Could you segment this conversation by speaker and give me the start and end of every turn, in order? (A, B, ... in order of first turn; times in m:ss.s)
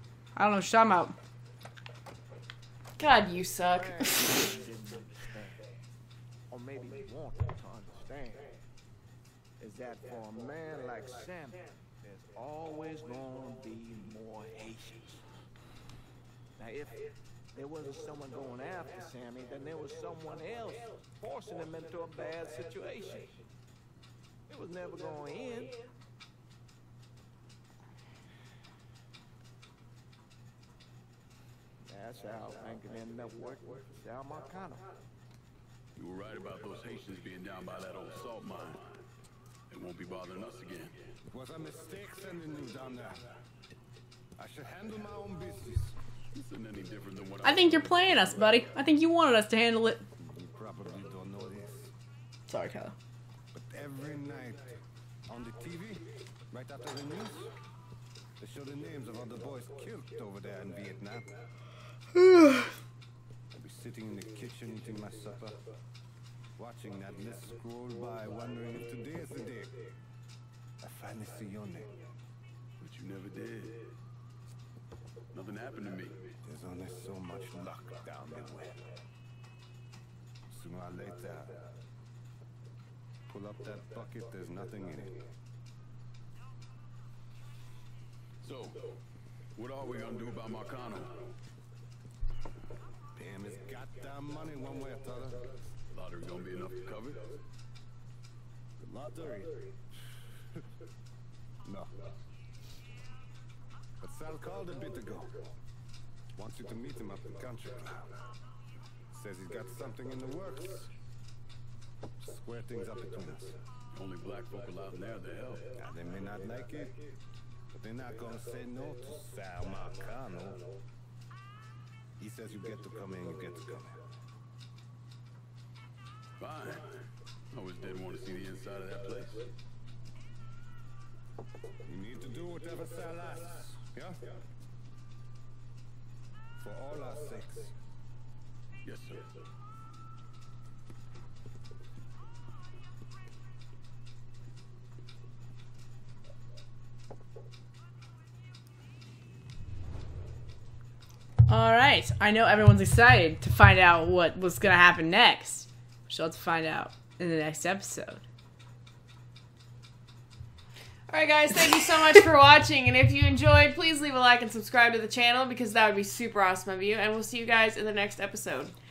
0:00.4-0:01.2 A
0:03.0-0:04.5 B
0:03.7-0:05.6 C
0:06.5-0:08.6 C
0:09.6-0:15.2 C
0:16.6-0:17.0 C
0:17.5-0:23.4 C
0:24.5-0:25.8 C
0:31.9-0:34.8 C
0:36.0-0:39.0 D
0:39.7-0:41.0 D
0:41.3-0:43.2 E
0:44.4-0:45.9 E
0:46.3-0:48.4 D
0:47.4-0:50.0 A
0:50.2-0:51.9 E
0:52.5-0:52.9 A
0:53.5-0:54.7 E
0:55.3-0:57.5 E
0:58.4-1:01.3 E
1:02.2-1:02.7 A
1:03.5-1:05.6 E
1:06.6-1:09.8 E
1:10.8-1:11.9 E
1:12.8-1:13.9 D
1:15.3-1:16.3 D
1:16.4-1:18.8 E
1:20.5-1:21.7 E
1:23.3-1:25.2 E
1:28.4-1:28.8 D
1:29.6-1:31.3 D
1:33.2-1:35.5 E
1:35.9-1:37.4 D
1:38.8-1:39.8 E
1:41.6-1:41.9 E
1:44.0-1:45.4 E
1:46.4-1:48.1 E
1:49.1-1:50.9 E
1:52.2-1:53.6 E
1:53.9-1:55.7 D
1:55.8-1:57.0 E
1:57.7-2:00.6 E
2:02.2-2:04.0 E
2:06.4-2:09.5 D
2:11.8-2:14.2 E
2:16.6-2:17.7 E
2:18.8-2:19.3 D
2:31.5-2:38.2 A
2:41.1-2:48.7 B